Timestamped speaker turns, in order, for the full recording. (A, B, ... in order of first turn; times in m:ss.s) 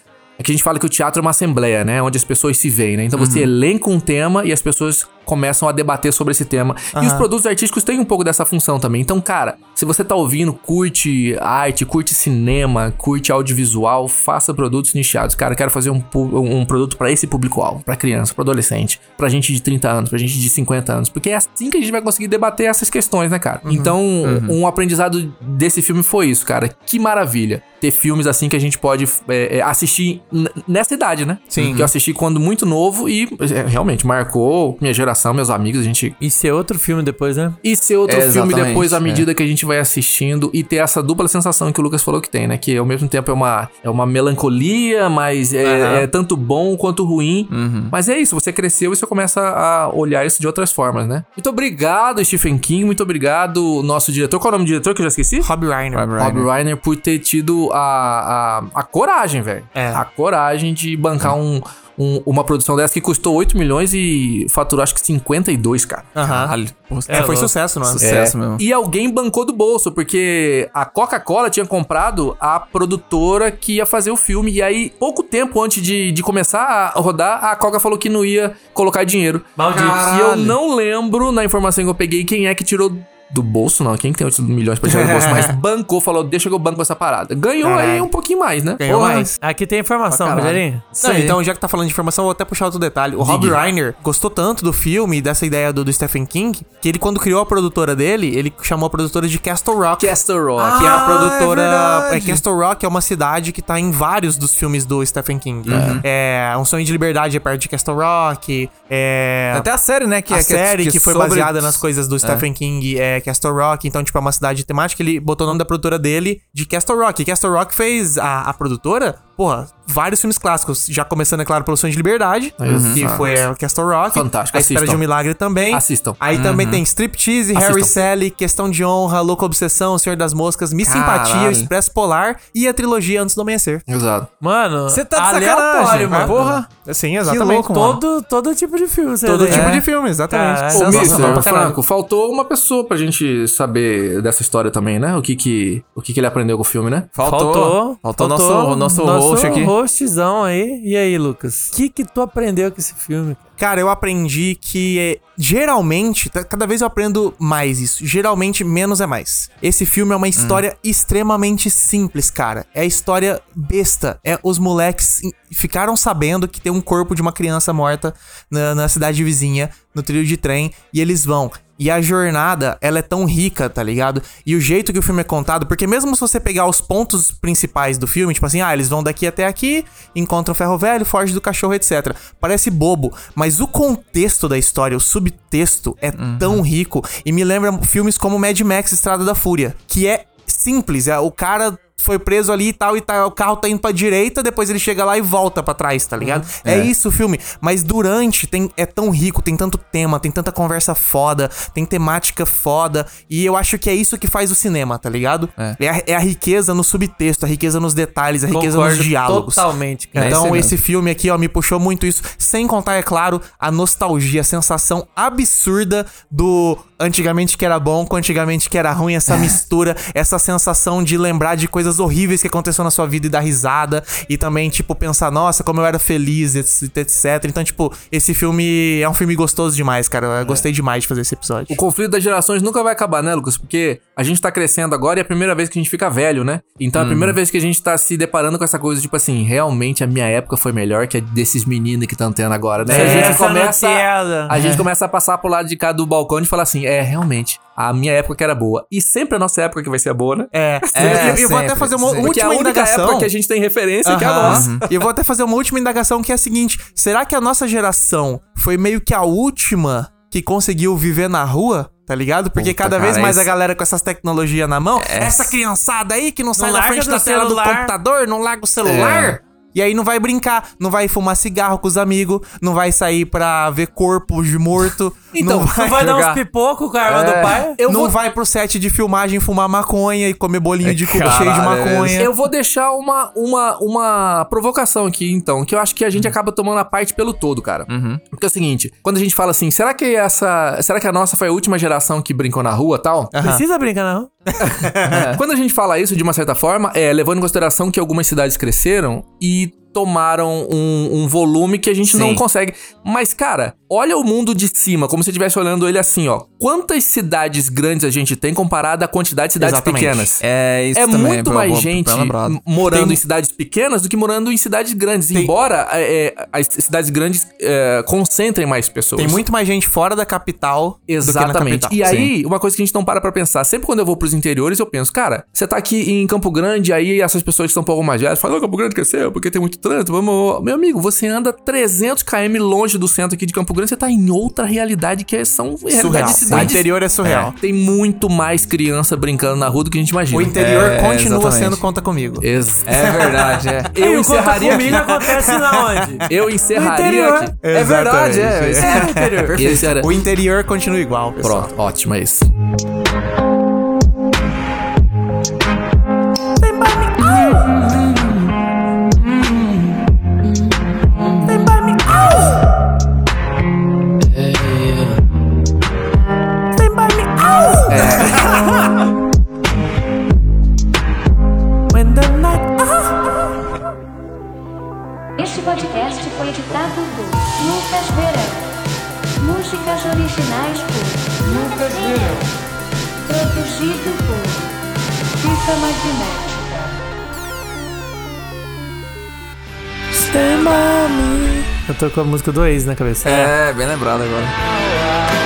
0:00.4-0:36.2 A
0:03.2-0:03.5 B
0:06.9-0:07.3 C
0:23.6-0:24.0 C
0:24.2-0:24.6 B
0:31.5-0:31.9 C
0:31.6-0:31.9 B
0:36.2-0:37.6 D
0:37.6-0:55.5 A
0:38.1-0:39.3 B
0:45.6-0:46.1 C
0:47.5-0:47.9 B
0:55.4-0:56.1 C
0:55.9-0:56.5 B
0:56.2-1:06.1 A
0:59.7-1:00.0 C
1:06.2-1:06.5 C
1:06.2-1:08.6 B
1:07.1-1:07.5 D
1:07.1-1:08.0 C
1:08.0-1:29.3 A
1:19.6-1:20.5 D
1:24.8-1:25.6 C
1:27.6-1:28.1 C
1:28.8-1:29.3 C
1:29.4-1:30.9 D
1:30.1-1:30.6 A
1:31.0-1:31.3 B
1:31.0-1:40.2 C
1:33.2-1:33.6 A
1:40.0-1:41.5 A
1:40.6-1:41.5 B
1:40.7-1:49.7 C
1:45.7-1:46.0 B
1:45.7-1:46.0 A
1:49.5-1:52.4 B
1:50.3-2:13.8 C
2:02.6-2:03.5 A
2:02.6-2:03.0 B
2:04.1-2:05.0 A
2:05.7-2:06.2 A
2:06.3-2:06.8 B
2:07.6-2:08.0 A
2:10.8-2:11.7 B
2:13.9-2:14.3 A
2:14.4-2:16.6 D
2:14.9-2:16.7 B
2:16.0-2:18.0 C
2:17.3-2:19.8 D
2:19.2-2:21.8 C
2:19.5-2:19.8 B
2:20.3-2:21.3 D
2:20.8-2:27.1 A
2:20.8-2:21.5 B
2:27.1-2:29.7 B
2:27.2-2:33.4 D
2:33.6-3:51.8 C
2:40.4-2:40.6 B
3:06.2-3:06.6 B
3:16.2-3:16.9 B
3:28.5-3:30.7 D
3:30.2-3:30.7 B
3:51.7-4:14.9 A
3:57.0-3:57.4 B
4:02.8-4:03.4 C
4:02.9-4:04.6 D
4:10.5-4:13.3 C
4:11.0-4:12.3 B
4:14.0-4:36.2 C
4:14.4-4:14.8 B
4:22.6-4:23.5 B
4:25.0-4:25.5 B
4:26.6-4:28.0 D
4:29.0-4:29.4 A
4:35.6-4:37.8 D
4:36.0-4:36.4 B
4:37.1-4:37.6 B
4:37.8-4:38.2 A
4:37.8-4:42.3 C
4:40.8-4:42.2 B
4:42.2-4:53.3 A
4:47.9-4:48.2 B
4:53.3-4:53.6 C
4:53.4-4:54.3 D
4:54.5-4:55.3 C
4:54.6-5:10.4 A
4:55.1-4:55.4 B
5:02.1-5:02.4 B
5:09.6-5:10.3 C
5:10.4-5:13.2 B
5:11.0-5:19.4 A
5:19.2-5:22.3 C
5:21.1-5:36.9 A
5:35.9-5:37.5 C
5:36.5-5:37.5 B
5:37.5-5:40.6 A
5:40.3-5:42.4 C
5:40.6-5:41.8 B
5:42.4-5:43.3 A
5:42.8-5:43.9 B
5:43.0-5:43.3 C
5:43.9-5:45.1 A
5:44.0-5:47.5 D
5:44.7-5:46.2 C
5:46.3-5:47.6 A
5:47.6-5:51.8 C
5:47.7-5:49.9 B
5:48.8-5:49.6 D
5:49.6-5:50.1 A
5:51.4-5:52.5 A
5:56.6-5:58.3 C
5:59.2-5:59.9 C
6:01.4-6:02.6 C
6:06.8-6:08.4 C
6:07.9-6:08.7 B
6:12.0-6:12.7 C
6:15.4-6:18.6 E
6:19.4-6:22.5 E
6:23.3-6:24.7 E
6:25.4-6:27.0 E
6:31.9-6:33.5 D
6:33.2-6:34.6 B